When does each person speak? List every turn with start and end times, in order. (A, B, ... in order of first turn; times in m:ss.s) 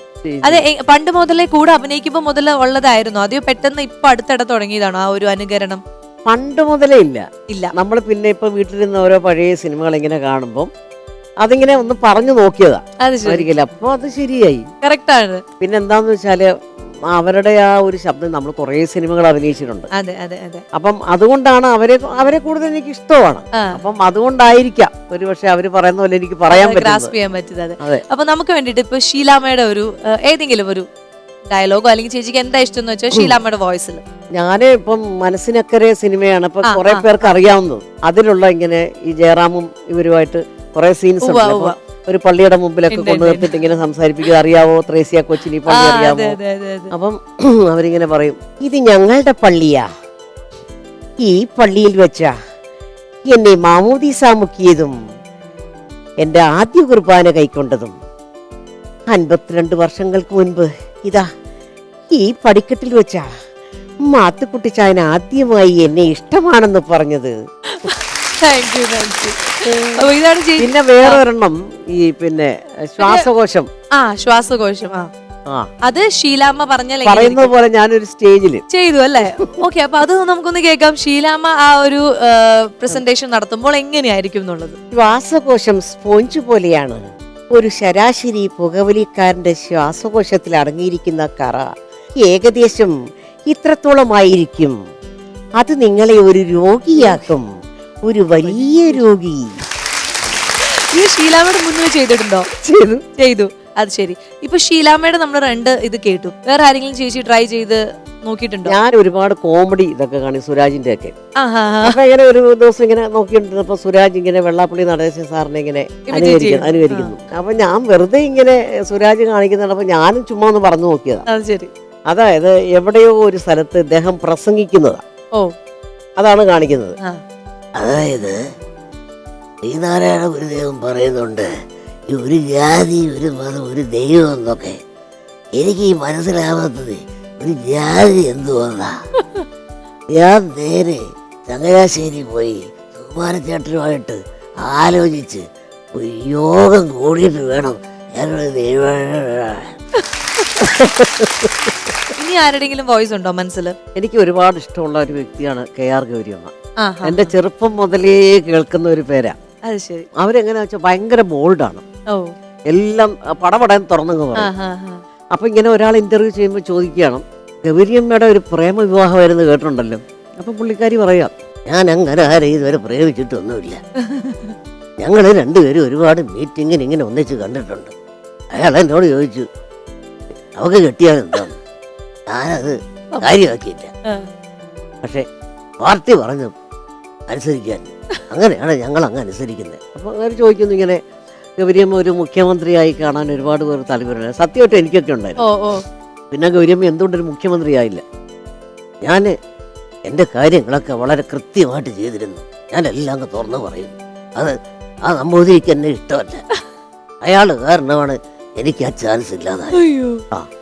0:00.2-0:00.6 A
0:00.4-0:05.8 B
0:06.3-0:07.2 A
0:07.8-0:10.7 A
0:11.4-0:14.7 A
0:13.0-0:13.5 B
0:14.8-0:15.4 B
0:15.6-0:16.5 A
0:17.1-0:19.9 A
0:19.9-0:20.6 B
0:20.7-0:27.1 A
0:26.5-0:30.9 B
0:31.5-0:34.0 B
0:33.1-0:33.4 A
0:34.4-0:46.4 A
0:36.6-0:37.4 B
0:41.2-0:41.8 B
0:42.9-0:43.5 B
0:45.7-0:46.9 B
0:46.9-0:49.8 A
0:51.2-0:52.3 A
0:53.3-0:55.0 A
0:56.2-0:58.0 A
0:59.1-1:01.3 A
1:02.1-1:03.3 A
1:04.1-1:07.3 A
1:07.7-1:11.2 B
1:09.6-1:10.1 A
1:10.6-1:13.7 A
1:13.0-1:13.3 B
1:14.0-1:15.1 B
1:15.8-1:17.5 B
1:17.0-1:18.6 A
1:18.7-1:24.8 B
1:19.2-1:19.5 A
1:24.9-1:31.7 A
1:32.2-1:32.9 A
1:33.5-1:34.8 A
1:35.6-1:37.5 A
1:37.0-1:37.2 B
1:38.1-1:39.6 A
1:38.4-1:39.0 B
1:40.6-1:42.5 B
1:42.6-1:43.0 A
1:43.2-1:48.8 B
1:48.7-1:51.2 A
1:51.4-1:52.0 B
1:51.8-2:01.2 A
1:56.1-1:57.1 B
2:01.3-2:01.7 B
2:02.1-2:05.0 A
2:06.2-2:07.0 A
2:07.8-2:08.4 C
2:09.6-2:11.5 C
2:12.1-2:14.8 C
2:15.6-2:18.9 C
2:20.1-2:29.7 C
2:30.6-2:31.7 A
2:32.2-2:33.8 B
2:34.0-2:36.5 A
2:36.8-2:37.4 B
2:37.0-2:39.4 A
2:39.6-2:40.1 B
2:40.2-2:41.8 A
2:42.1-2:42.3 B
2:42.7-2:44.5 A
2:44.4-2:45.0 B
2:45.3-2:51.3 A
2:51.7-2:53.8 C
2:54.0-2:54.6 B
2:55.0-2:57.9 C
2:58.5-2:59.5 C
3:00.6-3:01.6 C
3:02.3-3:03.9 C
3:03.1-3:03.4 B
3:05.8-3:06.5 C
3:07.3-3:09.8 C
3:09.8-3:11.0 A
3:11.6-3:15.4 A
3:15.4-3:15.8 B
3:16.3-3:18.0 A
3:19.1-3:19.3 A
3:20.1-3:26.4 C
3:27.2-3:29.8 C
3:29.7-3:30.2 B